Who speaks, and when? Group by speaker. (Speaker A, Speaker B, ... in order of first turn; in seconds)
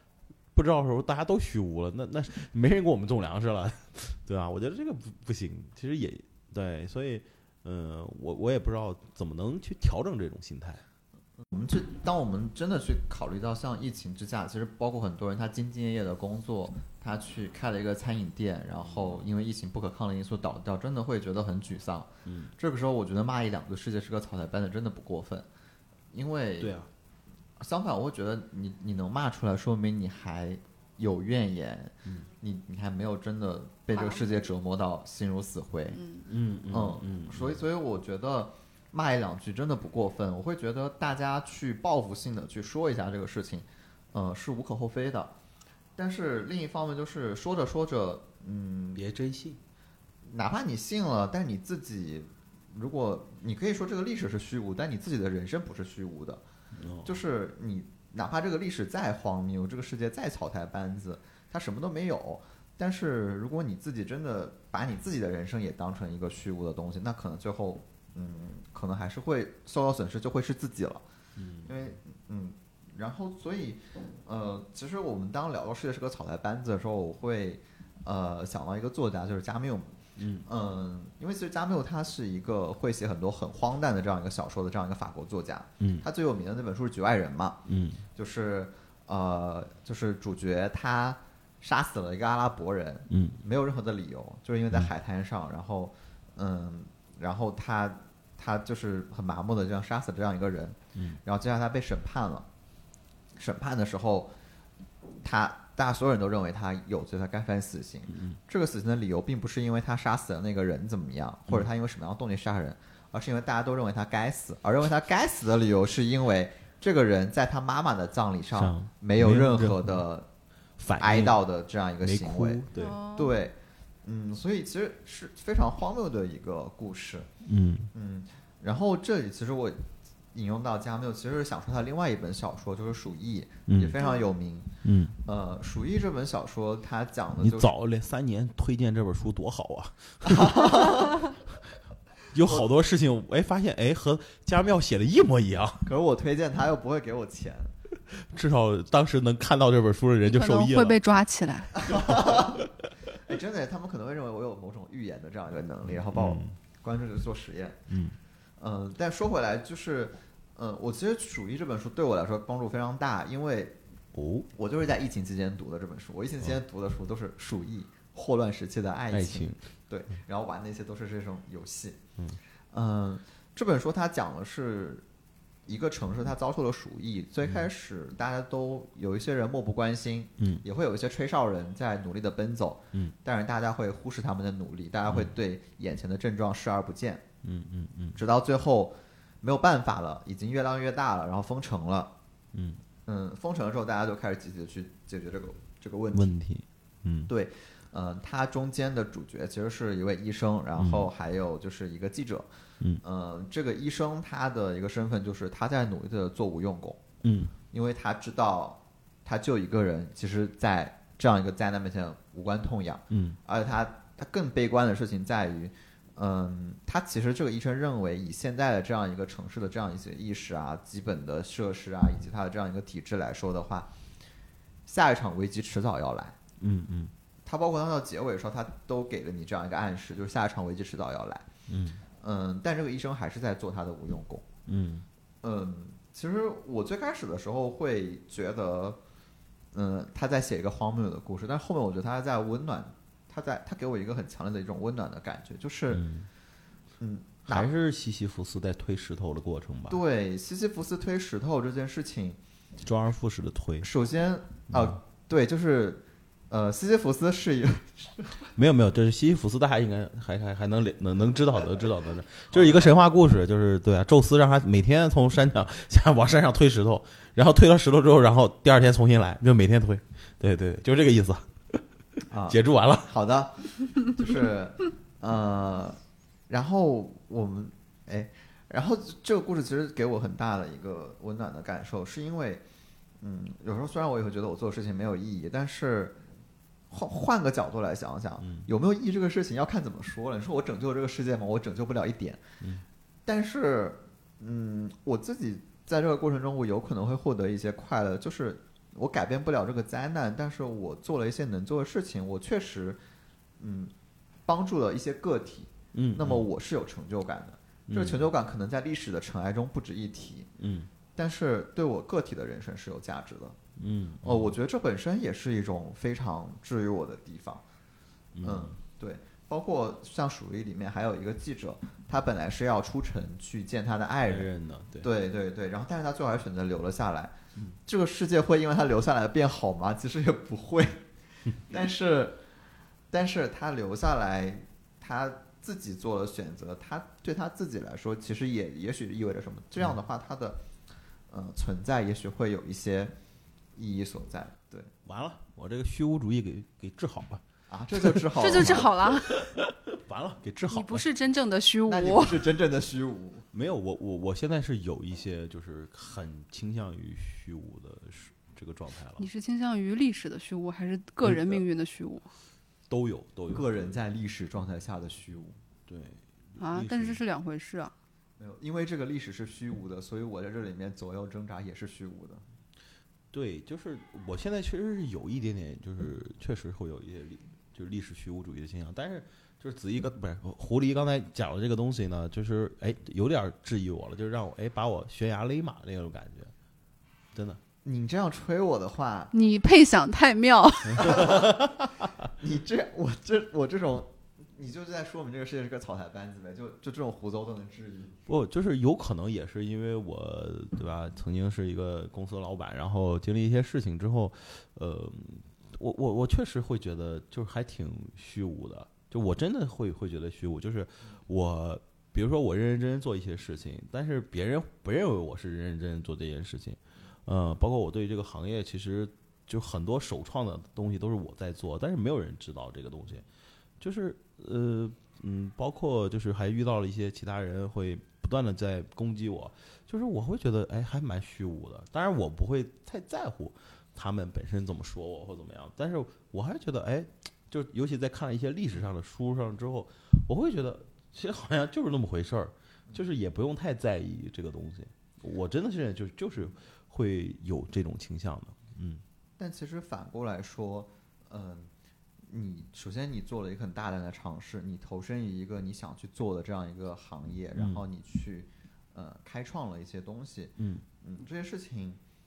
Speaker A: 0.5-10.8, 18.8-19.3, 22.2-22.5, 26.6-26.9, 36.2-37.6, 48.9-49.6, 56.7-57.2, 71.3-71.7, 80.2-80.5, 85.8-86.0, 87.7-88.0, 93.1-93.4, 108.1-108.4, 118.5-120.0, 120.8-121.4, 122.0-123.0, 127.4-127.9, 133.7-134.0, 134.8-135.2, 137.4-141.0, 142.3-145.9, 148.1-151.0, 151.9-152.9, 156.0-156.6, 157.9-158.2, 164.1-164.5, 169.1-169.6, 180.4-180.6, 185.1-185.3, 187.4-188.2, 192.5-192.8, 196.1-197.3, 200.8-201.1, 207.2-207.5, 213.1-213.4, 226.6-227.1, 231.7-232.0, 234.7-235.1, 245.9-246.3, 247.4-250.0, 252.8-253.9, 254.7-255.0, 258.6-271.8, 272.4-273.1, 288.4-288.7, 305.9-306.4, 307.9-308.3, 310.6-310.9, 313.8-314.5, 318.3-318.8, 324.2-325.1, 345.0-351.1, 353.5-359.3, 361.2-361.6, 362.9-363.9, 365.9-367.2, 373.3-386.5, 387.3-387.6, 391.0-391.7, 398.2-423.2, 423.8-449.0, 457.6-457.8, 460.6-460.8
Speaker B: 11.4-25.5, 26.1-26.8, 27.6-36.0, 36.7-45.3, 46.0-49.0, 50.2-56.4, 57.0-71.0, 71.6-102.5, 103.3-104.3, 105.2-120.3, 121.0-127.3, 127.9-134.7, 135.2-137.7, 140.2-141.3, 145.8-147.7, 151.7-157.8, 158.6-163.8, 164.5-172.0, 172.7-175.0, 175.7-187.2, 188.1-192.1, 193.1-196.3, 197.3-202.5, 203.0-207.0, 207.7-223.9, 224.8-226.4, 227.4-231.5, 232.2-234.5, 235.4-239.0, 239.7-246.1, 247.0-247.7, 249.9-252.4, 253.8-258.5, 262.5-263.0, 272.3-276.0, 276.5-282.6, 283.2-286.2, 286.9-292.6, 293.2-303.0, 303.6-303.9, 304.4-310.5, 311.1-313.6, 314.2-317.6, 318.4-324.5, 325.0-327.3, 327.9-332.4, 333.1-340.6, 341.3-343.1, 343.7-344.9, 347.7-348.9, 351.9-353.4, 363.5-365.6, 368.4-372.4, 387.8-389.3, 390.9-391.6, 392.3-398.2, 449.4-451.7, 452.2-462.0
Speaker C: 33.9-34.3, 35.9-36.3, 122.7-123.4, 150.2-151.8, 348.4-349.4, 350.7-352.5, 359.2-362.3, 366.6-367.9, 389.3-391.1